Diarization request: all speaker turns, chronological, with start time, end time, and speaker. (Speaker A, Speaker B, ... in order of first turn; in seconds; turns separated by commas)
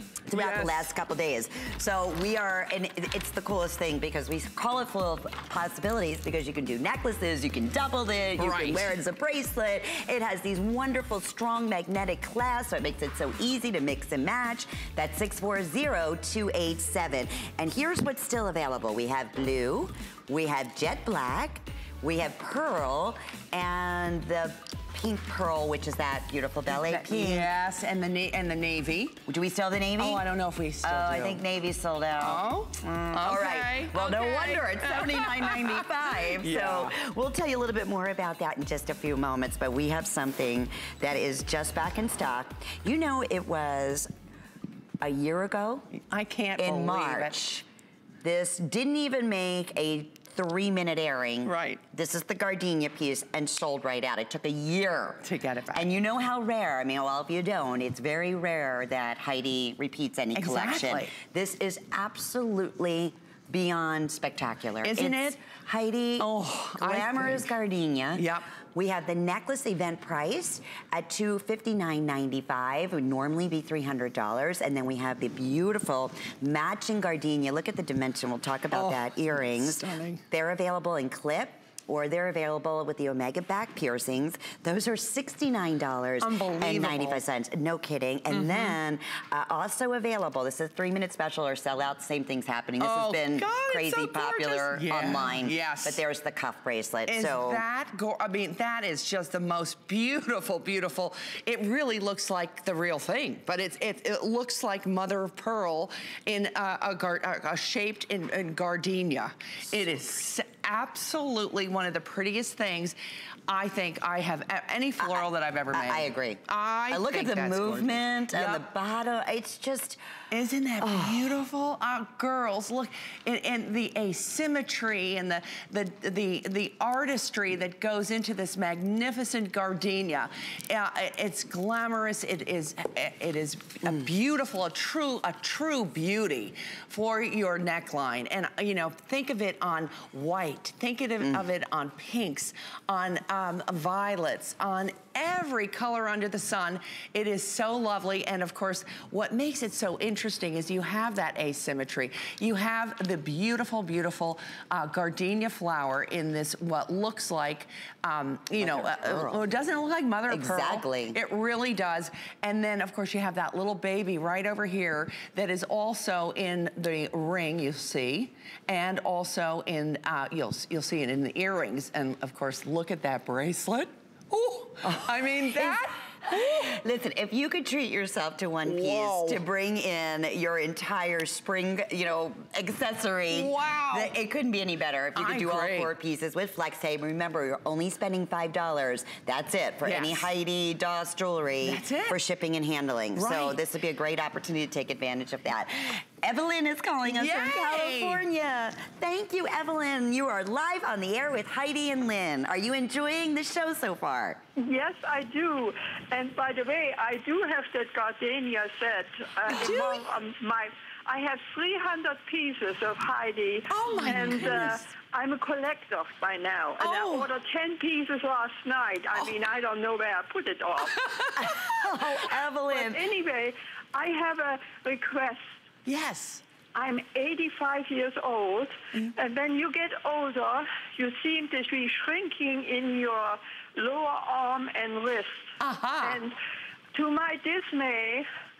Speaker A: 0.3-27.5, Speaker B: 0.3-0.9, Speaker B: 8.4-8.9, Speaker B: 26.7-29.2, Speaker A: 29.3-30.2, Speaker B: 30.0-31.4, Speaker A: 30.8-44.1, Speaker B: 32.1-37.0, Speaker A: 45.0-45.9, Speaker B: 45.9-47.4, Speaker A: 46.6-47.6, Speaker A: 48.2-97.6, Speaker B: 51.4-51.8, Speaker B: 55.2-55.9, Speaker B: 60.3-61.1, Speaker B: 64.8-65.4, Speaker B: 66.2-67.5, Speaker B: 68.2-68.5, Speaker B: 78.7-80.2, Speaker B: 86.2-87.2, Speaker B: 88.3-88.8, Speaker B: 92.8-96.0, Speaker B: 97.0-113.0, Speaker B: 113.5-118.6, Speaker A: 115.0-120.0, Speaker B: 120.3-176.8, Speaker A: 120.8-121.3, Speaker A: 158.6-159.5, Speaker A: 160.3-161.2, Speaker A: 174.8-204.4, Speaker B: 178.6-179.4, Speaker B: 183.3-184.1, Speaker B: 185.1-185.9, Speaker B: 189.8-190.3, Speaker B: 191.6-192.2, Speaker B: 193.1-193.6, Speaker B: 197.1-198.2, Speaker C: 204.6-221.0, Speaker B: 209.5-210.0, Speaker B: 213.7-214.8, Speaker B: 216.8-217.3, Speaker B: 220.9-222.2, Speaker A: 221.3-223.1, Speaker C: 222.7-225.5, Speaker B: 225.8-226.4, Speaker C: 226.7-236.3, Speaker B: 235.6-236.2, Speaker C: 236.9-238.2